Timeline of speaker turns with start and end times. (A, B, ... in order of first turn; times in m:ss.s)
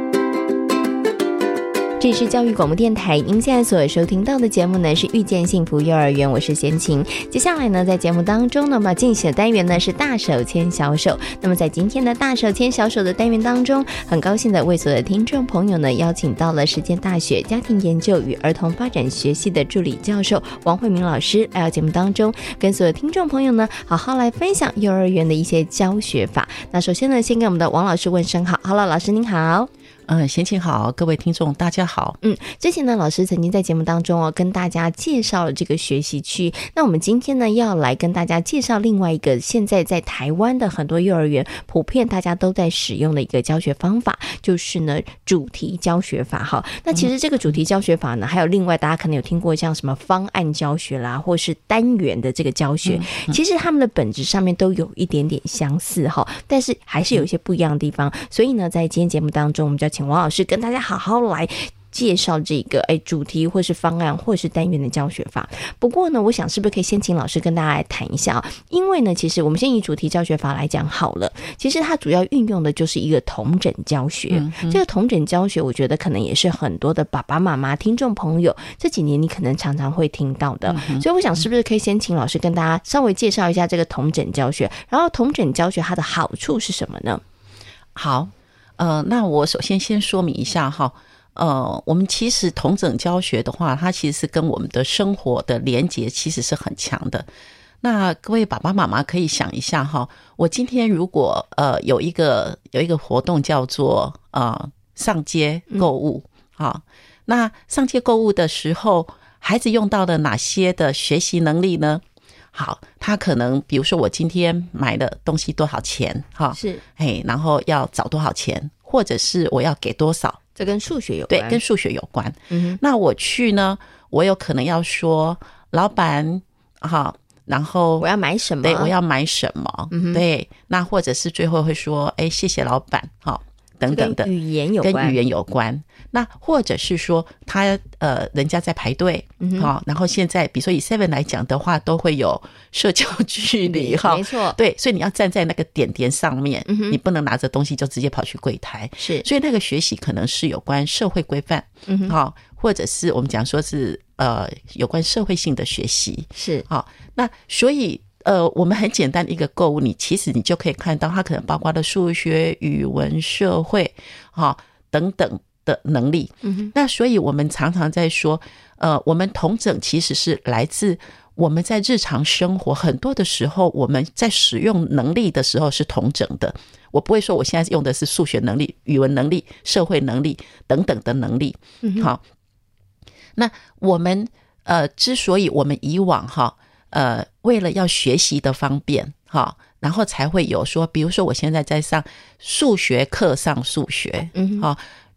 0:02.0-0:29.7 A
0:30.1-0:32.2 B
0:32.2-1:27.2 A
0:52.8-0:53.4 B
1:14.3-1:14.8 B
1:20.7-1:21.0 B
1:27.9-1:37.3 B
1:37.8-1:52.0 B
1:52.5-2:00.4 B
1:56.5-1:56.8 A
2:00.6-2:01.6 A
2:01.3-2:08.0 B
2:02.5-2:02.8 A
2:08.0-2:08.9 A
2:08.6-2:14.3 B
2:09.9-2:10.2 A
2:13.9-2:15.2 A
2:14.8-3:02.2 B
2:19.4-2:19.7 A
2:23.6-2:24.6 A
2:26.7-2:27.0 A
2:29.0-2:29.2 A
2:31.9-2:32.1 A
2:36.4-2:36.6 A
2:46.4-2:46.7 A
3:01.8-3:02.1 A
3:03.4-3:14.8 B
3:14.3-3:14.7 A